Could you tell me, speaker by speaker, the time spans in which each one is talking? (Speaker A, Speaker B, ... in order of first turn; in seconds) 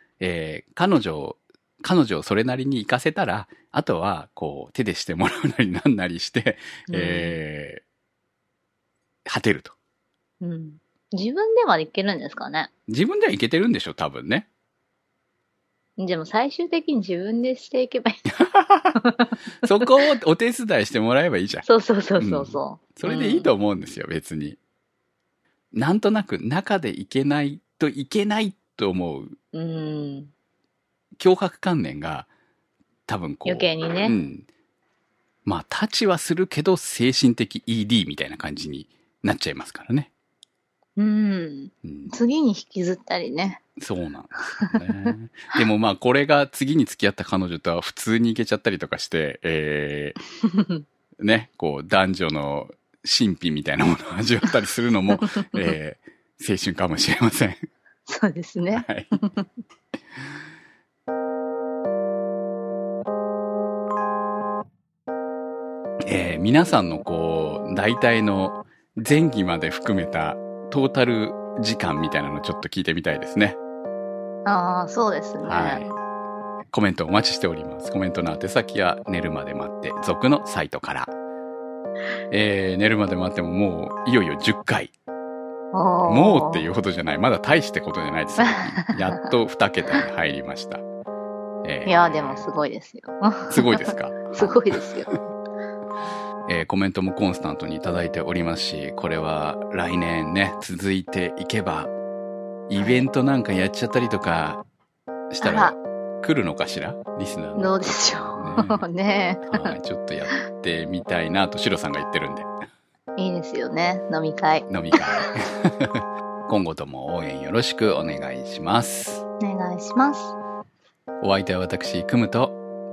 Speaker A: 0.2-7.8, 9.3-9.8, 12.9-14.5, 18.4-19.0, 19.6-21.7, 22.2-24.6, 25.7-29.3, 31.2-32.3, 33.1-34.5, 35.5-40.1, 41.8-42.1, 43.8-50.2, 51.2-57.6, 58.7-59.2, 66.1-73.6, 75.4-75.9, 76.7-81.1, 82.3-84.9, 86.1-90.8, 91.6-92.5, 93.5-94.5, 96.5-101.9, 102.7-104.6, 105.3-108.8, 109.5-112.5, 114.7-119.2, 121.2-122.5
Speaker B: 6.9-7.4, 10.4-12.7, 16.0-18.2, 19.0-19.3, 21.7-23.5, 29.5-30.3, 33.5-34.2, 41.0-43.6, 44.6-45.1, 50.5-50.8, 58.1-59.5, 74.5-75.8, 85.7-86.7, 88.4-89.0, 91.9-95.2, 105.4-105.8, 107.6-109.8, 113.2-115.2, 119.4-120.4